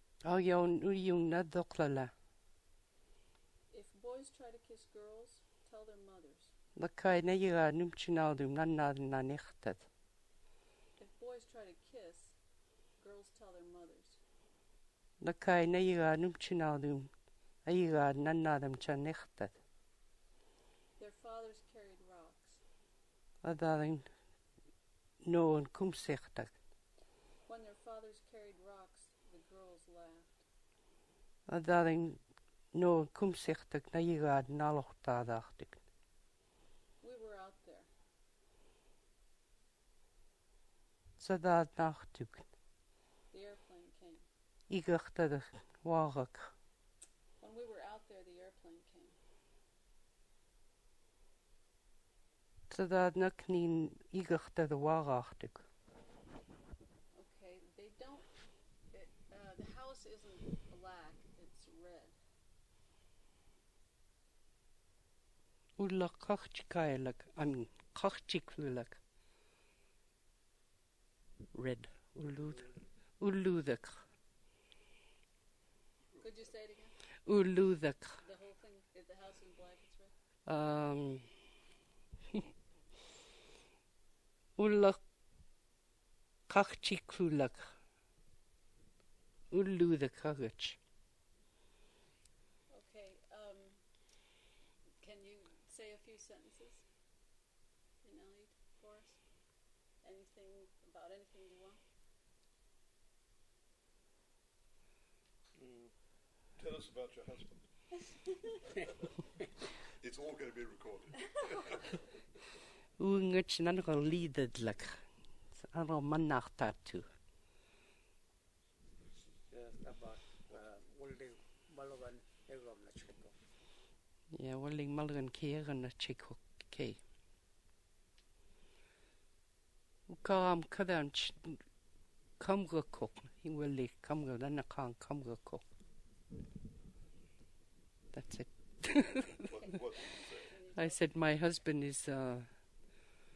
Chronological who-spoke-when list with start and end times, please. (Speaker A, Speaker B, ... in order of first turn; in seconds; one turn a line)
Speaker A: 0.2-2.1
Speaker B: 3.7-6.5
Speaker A: 6.8-9.8
Speaker B: 11.0-12.4
Speaker B: 13.0-14.2
Speaker A: 15.2-17.1
Speaker A: 17.6-19.5
Speaker B: 21.0-22.6
Speaker A: 23.4-24.1
Speaker A: 25.2-26.5
Speaker B: 27.5-30.4
Speaker A: 31.5-32.2
Speaker A: 32.7-35.8
Speaker B: 37.0-37.9
Speaker A: 41.2-42.4
Speaker B: 43.3-44.3
Speaker A: 44.7-46.5
Speaker B: 47.4-49.2
Speaker A: 52.7-55.6
Speaker B: 57.1-58.3
Speaker B: 58.9-62.2
Speaker A: 65.8-69.0
Speaker A: 71.5-74.0
Speaker B: 76.2-77.0
Speaker A: 77.2-78.2
Speaker B: 78.2-80.1
Speaker A: 80.5-81.4
Speaker A: 84.6-85.0
Speaker A: 86.5-87.7
Speaker A: 89.5-90.8
Speaker B: 92.7-93.9
Speaker B: 95.0-96.9
Speaker B: 98.0-99.4
Speaker B: 100.0-101.8
Speaker C: 105.5-105.9
Speaker D: 106.6-107.7
Speaker D: 110.0-112.0
Speaker A: 113.0-117.0
Speaker C: 119.2-123.4
Speaker A: 124.3-127.0
Speaker A: 130.1-131.6
Speaker A: 132.4-135.6
Speaker A: 138.1-139.7
Speaker D: 139.4-140.6
Speaker B: 139.7-141.2
Speaker A: 140.7-142.5